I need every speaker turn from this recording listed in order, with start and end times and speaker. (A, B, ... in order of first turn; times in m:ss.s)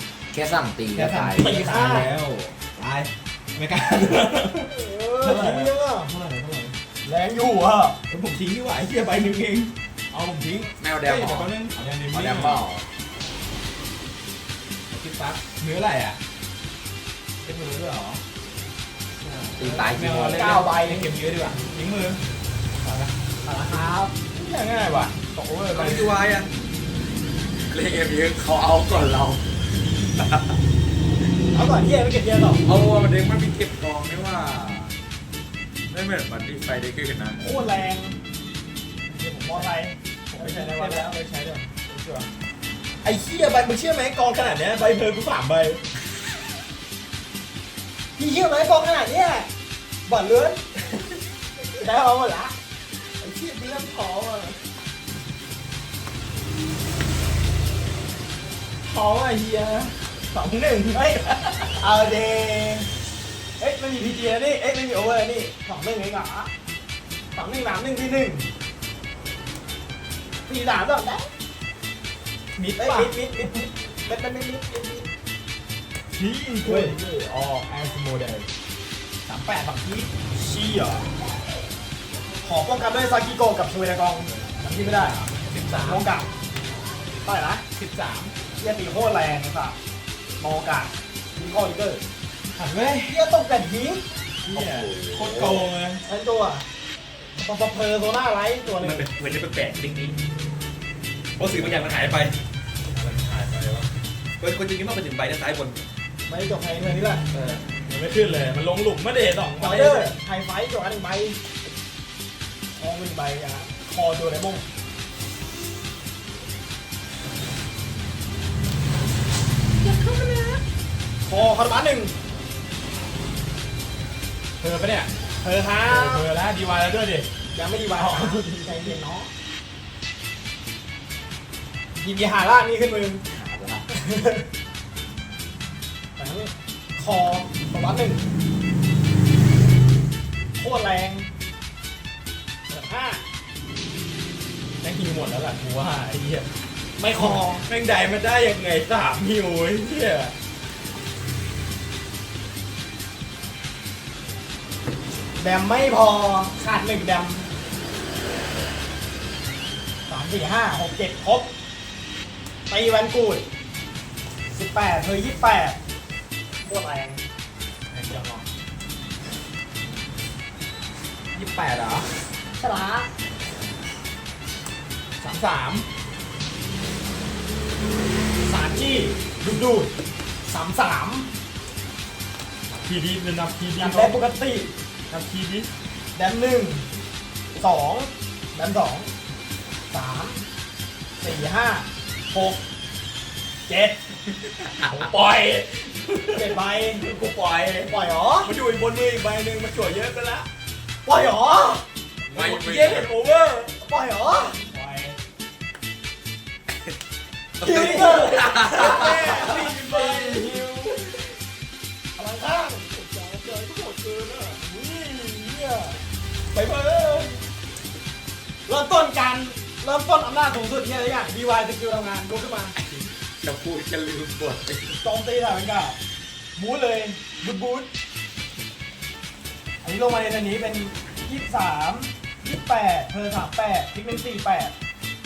0:00.3-0:02.0 A
0:00.9-0:06.8 B
0:01.4-0:02.1 C
0:04.7-0:06.1 C
0:07.0-0:08.0 C
0:08.1-0:12.6 B
0:10.8-0:11.5 A
0:12.1-0:12.9 A
0:14.9-0:16.2 B
0:17.4-0:18.2 B
0:19.2-0:22.2 B
0:19.6-0:20.6 A
0:20.3-0:21.1 C
0:22.8-0:23.1 B
0:23.4-0:24.1 C
0:24.3-0:26.1 B
0:25.7-0:26.5 A
0:27.6-0:30.6 A
0:31.5-0:32.6 C
0:32.6-0:35.0 A
0:35.9-0:37.4 A
0:37.4-0:38.2 C
0:39.1-0:39.7 B
0:39.2-0:41.1 C
0:40.3-0:42.3 B
0:43.0-0:45.8 B
0:48.2-0:49.5 C
0:50.1-0:50.6 C
0:51.8-0:52.5 C
0:53.0-0:54.6 B
0:58.8-1:01.8 B
1:00.9-1:02.9 C
1:03.6-1:04.6 C
1:04.0-1:05.3 B
1:05.3-1:06.5 C
1:07.4-1:08.5 C
1:10.4-1:11.3 C
1:12.6-1:13.1 B
1:12.8-1:15.1 C
1:16.2-1:18.5 B
1:16.6-1:16.9 C
1:19.3-1:20.1 B
1:20.3-1:21.1 C
1:22.4-1:25.2 C
1:24.8-1:26.0 B
1:25.8-1:26.3 C
1:27.2-1:27.6 C
1:27.8-1:28.3 B
1:28.5-1:29.8 C
1:30.4-1:32.0 C
1:32.6-1:33.2 B
1:33.0-1:34.0 C
1:34.4-1:36.0 B
1:34.5-1:35.7 A
1:36.0-1:36.6 C
1:37.4-1:39.1 C
1:38.8-1:39.2 B
1:39.0-1:40.1 A
1:41.4-1:42.3 B
1:41.6-1:41.8 A
1:42.9-1:43.9 B
1:44.4-1:45.8 A
1:44.4-1:44.8 B
1:46.3-1:47.2 C
1:47.3-1:50.1 B
1:49.6-1:51.4 C
1:52.8-1:54.6 C
1:59.8-2:00.6 C
2:01.2-2:02.1 C
2:04.6-2:05.1 B
2:05.4-2:06.2 C
2:05.8-2:07.3 B
2:07.5-2:09.3 C
2:08.0-2:09.0 B
2:12.0-2:13.2 C
2:13.3-2:13.8 A
2:13.9-2:14.5 C
2:16.2-2:18.2 C
2:20.6-2:21.3 C
2:22.7-2:23.2 C
2:24.8-2:26.5 B
2:27.0-2:27.6 C
2:27.2-2:30.3 B
2:35.4-2:37.5 C
2:40.1-2:41.5 C
2:42.7-2:43.4 C
2:44.5-2:45.8 C
2:46.6-2:47.2 C
2:47.9-2:48.5 B
2:51.3-2:52.3 B
2:52.6-2:53.1 C
2:55.2-2:55.8 B
2:58.4-2:59.9 C
3:00.4-3:01.3 C
3:02.8-3:04.1 B
3:03.8-3:04.7 C
3:05.1-3:05.7 B
3:06.2-3:06.8 C
3:07.6-3:09.1 C
3:09.9-3:10.4 C
3:11.2-3:12.6 C
3:13.7-3:14.0 C
3:14.7-3:20.5 B
3:16.3-3:17.0 C
3:17.9-3:18.5 C
3:21.0-3:21.8 C
3:22.3-3:23.1 A
3:22.3-3:23.8 B
3:23.8-3:24.6 C
3:24.7-3:25.2 B
3:27.6-3:29.3 A
3:27.6-3:31.2 C
3:27.6-3:31.1 B
3:32.2-3:33.4 C
3:33.3-3:34.6 B
3:34.6-3:36.0 C
3:36.5-3:37.4 B
3:38.7-3:42.8 C
3:42.8-3:45.0 A
3:45.0-3:46.0 C
3:46.6-3:47.9 C
3:49.8-3:54.7 C